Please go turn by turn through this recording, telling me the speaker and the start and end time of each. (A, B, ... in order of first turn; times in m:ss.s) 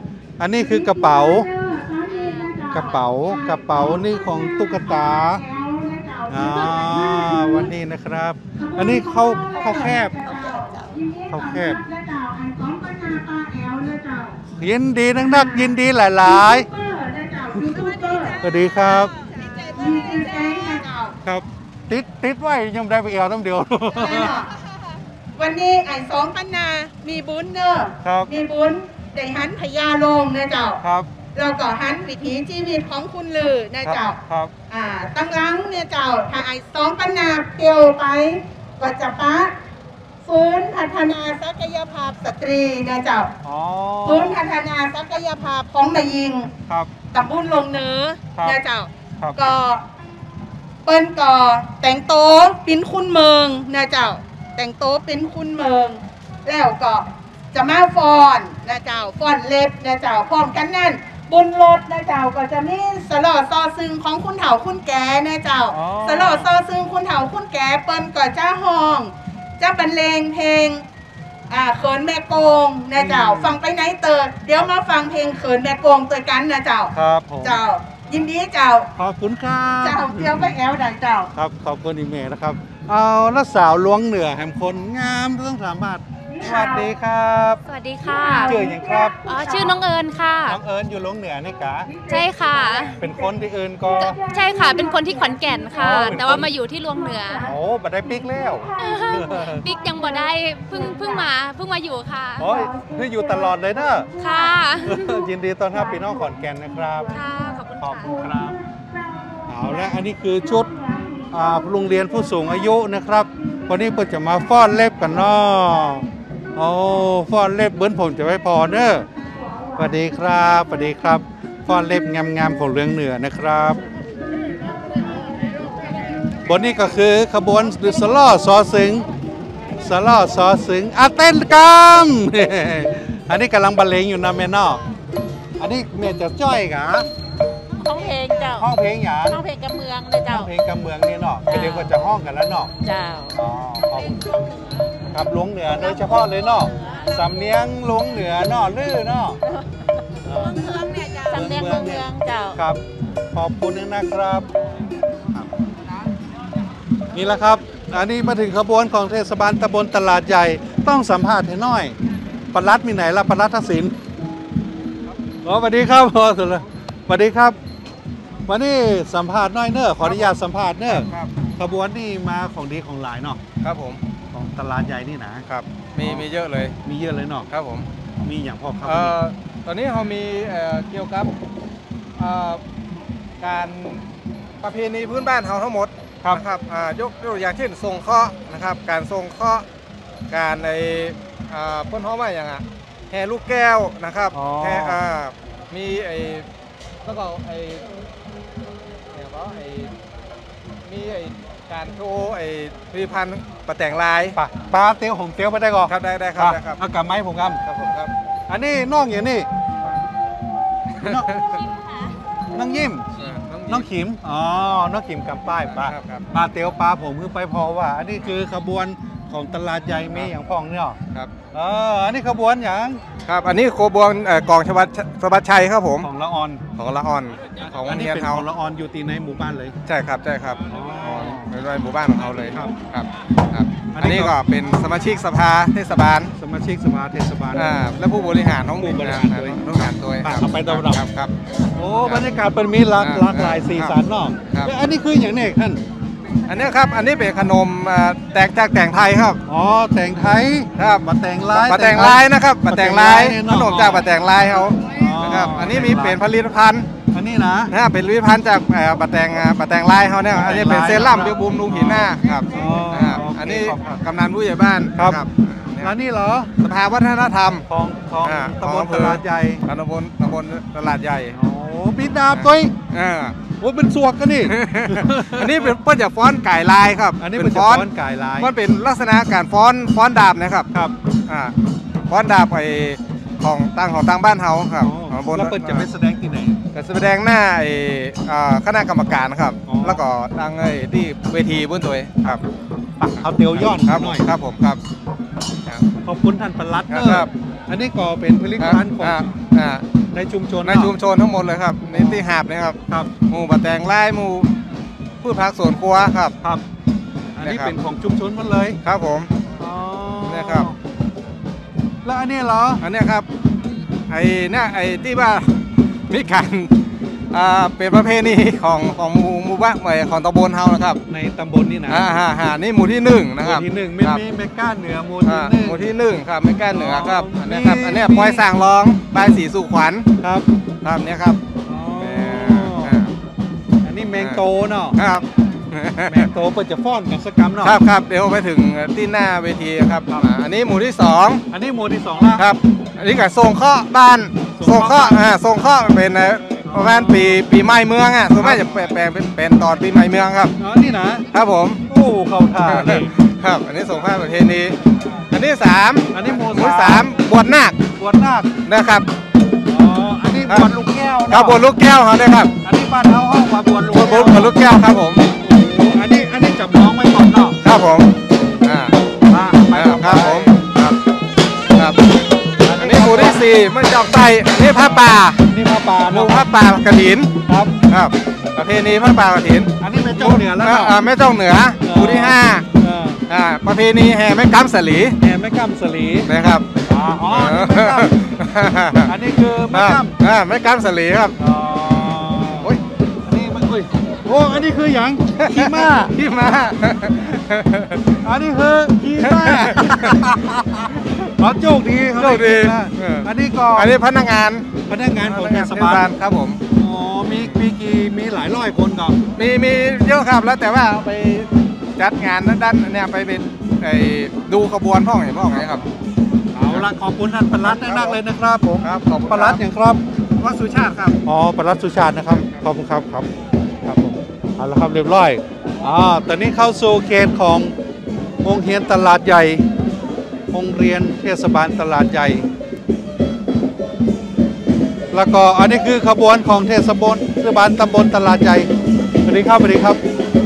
0:00.4-0:01.5 A
0:01.5-0:02.8 B
0:02.7-0:05.4 A
0:04.8-0:07.6 B
0:06.3-0:10.3 A
0:08.6-0:14.4 B
0:11.3-0:11.8 A
0:14.6-0:16.7 A
0:15.3-0:15.7 B
0:16.2-0:18.4 B
0:18.4-0:19.1 A
0:19.6-0:21.2 B
0:21.2-0:24.3 A
0:23.9-0:24.5 B
0:25.4-0:30.8 B
0:28.0-0:28.3 A
0:30.8-0:31.1 A
0:31.3-0:34.2 B
0:33.8-0:34.5 A
0:34.7-0:39.5 B
0:40.2-0:43.3 B
0:43.4-0:44.4 A
0:44.0-0:46.5 B
0:47.1-0:49.8 B
0:50.8-1:10.9 B
1:05.7-1:06.5 A
1:11.5-1:16.9 B
1:13.0-1:13.5 A
1:16.9-1:17.6 A
1:17.4-1:18.9 B
1:19.0-1:20.5 A
1:19.8-1:21.3 B
1:21.4-1:27.6 A
1:26.3-1:26.9 B
1:27.7-1:28.5 C
1:28.0-1:29.7 B
1:28.4-1:29.2 A
1:29.3-1:30.6 C
1:30.5-1:31.9 A
1:31.9-1:32.9 B
1:32.1-1:32.9 C
1:33.0-1:34.2 A
1:34.0-1:37.5 C
1:35.1-1:35.8 B
1:35.8-1:36.5 A
1:37.4-1:39.7 A
1:38.8-1:42.5 C
1:42.4-1:44.1 A
1:44.2-1:45.1 C
1:44.8-1:47.1 A
1:47.1-1:48.2 C
1:47.8-1:48.6 A
1:49.5-1:50.7 A
1:51.3-1:56.0 A
1:56.6-1:59.1 A
1:59.8-2:03.8 A
2:06.4-2:09.1 A
2:09.8-2:14.8 A
2:15.6-2:17.1 A
2:17.8-2:18.7 D
2:18.6-2:19.4 A
2:19.3-2:20.5 D
2:20.3-2:22.7 A
2:21.5-2:21.9 D
2:22.8-2:23.3 D
2:23.3-2:24.2 A
2:25.1-2:29.4 A
2:30.3-2:32.6 D
2:31.3-2:32.8 A
2:33.3-2:34.5 A
2:37.1-2:42.0 A
2:42.5-2:43.9 A
2:45.4-2:47.6 A
2:48.5-2:53.4 A
2:50.0-2:51.3 E
2:53.6-2:54.0 E
2:54.3-2:55.4 A
2:55.5-2:56.8 E
2:56.8-2:57.5 A
2:57.5-2:57.9 E
2:58.2-2:59.2 A
2:58.8-3:01.3 E
3:02.2-3:02.6 E
3:03.4-3:04.0 E
3:04.6-3:09.6 E
3:10.3-3:16.5 E
3:14.3-3:15.0 A
3:17.0-3:17.8 E
3:19.1-3:19.9 E
3:20.8-3:24.4 E
3:24.4-3:27.6 A
3:25.9-3:26.8 E
3:27.6-3:28.1 E
3:28.5-3:29.5 A
3:31.0-3:31.6 E
3:31.0-3:31.3 A
3:32.5-3:33.1 A
3:33.2-3:33.9 E
3:33.7-3:41.0 A
3:35.7-3:36.3 E
3:41.5-3:43.0 A
3:43.2-3:46.1 E
3:46.0-3:46.6 A
3:46.8-3:48.4 E
3:47.9-3:49.8 A
3:49.9-3:56.3 E
3:50.7-3:51.5 A
3:53.9-3:54.4 A
3:56.4-3:57.7 A
3:57.5-4:01.3 E
3:58.8-4:01.0 A
4:01.8-4:05.8 A
4:03.0-4:04.0 E
4:06.5-4:09.4 E
4:09.5-4:14.1 A
4:10.8-4:16.9 E
4:14.9-4:16.2 A
4:17.1-4:17.7 A
4:17.7-4:25.9 E
4:20.3-4:24.0 A
4:25.8-4:26.5 A
4:26.6-4:27.6 E
4:27.7-4:29.6 A
4:28.2-4:31.4 E
4:31.4-4:32.7 A
4:32.3-4:33.4 E
4:33.6-4:35.7 A
4:34.5-4:40.7 E
4:37.2-4:38.5 A
4:41.3-4:41.6 E
4:42.1-4:45.9 E
4:44.8-4:46.6 A
4:46.7-4:52.4 E
4:49.7-4:50.0 A
4:53.0-4:54.3 A
4:53.5-4:54.8 E
4:56.0-4:59.3 A
4:56.9-4:57.3 E
4:58.6-4:59.8 E
5:00.1-5:00.9 A
5:00.6-5:04.6 E
5:01.9-5:02.2 A
5:05.2-5:06.4 E
5:07.4-5:08.8 A
5:07.4-5:07.7 E
5:08.8-5:09.3 E
5:09.6-5:10.8 A
5:10.2-5:10.7 E
5:12.0-5:12.8 A
5:12.8-5:13.3 E
5:14.1-5:16.7 E
5:17.3-5:21.0 E
5:21.1-5:22.1 A
5:21.9-5:24.2 E
5:23.4-5:25.9 A
5:25.2-5:30.1 E
5:26.7-5:28.4 A
5:30.2-5:30.5 A
5:30.8-5:31.4 E
5:31.7-5:33.0 A
5:32.0-5:33.1 E
5:33.8-5:35.0 A
5:35.0-5:36.3 E
5:36.1-5:37.8 A
5:37.6-5:41.4 E
5:41.5-5:42.5 A
5:42.4-5:50.5 E
5:44.6-5:45.3 A
5:46.7-5:47.4 A
5:48.4-5:48.8 A
5:50.6-5:51.2 A
5:51.3-5:51.8 E
5:51.9-5:53.1 A
5:52.7-5:54.8 E
5:55.3-5:57.8 E
5:56.1-5:57.1 A
5:58.0-5:58.5 A
5:58.7-5:59.1 E
5:59.7-6:01.6 A
6:01.3-6:02.5 E
6:02.6-6:04.5 A
6:03.9-6:05.3 E
6:05.3-6:07.6 A
6:07.6-6:08.1 E
6:08.6-6:08.9 E
6:09.3-6:10.6 A
6:09.7-6:11.0 E
6:11.7-6:12.0 E
6:12.6-6:13.4 A
6:12.8-6:15.4 E
6:14.8-6:16.4 A
6:16.1-6:17.3 E
6:17.5-6:17.7 A
6:17.9-6:22.7 E
6:19.8-6:21.0 A
6:21.8-6:23.2 A
6:23.3-6:25.2 E
6:25.2-6:26.3 A
6:26.3-6:26.7 E
6:26.9-6:28.1 A
6:27.3-6:29.1 E
6:29.0-6:30.2 A
6:29.7-6:31.4 E
6:31.4-6:32.7 A
6:33.3-6:36.2 A
6:35.4-6:38.2 E
6:38.2-6:44.0 A
6:39.2-6:40.4 E
6:42.0-6:46.6 E
6:44.9-6:46.1 A
6:46.7-6:49.2 A
6:47.4-6:47.6 E
6:49.4-6:55.8 E
6:56.6-7:00.0 A
6:57.6-6:58.2 E
6:58.8-6:59.6 E
7:00.4-7:01.2 E
7:01.2-7:03.3 A
7:03.8-7:07.7 A
7:08.4-7:09.6 A
7:10.5-7:12.5 A
7:15.1-7:18.7 A
7:19.3-7:20.0 A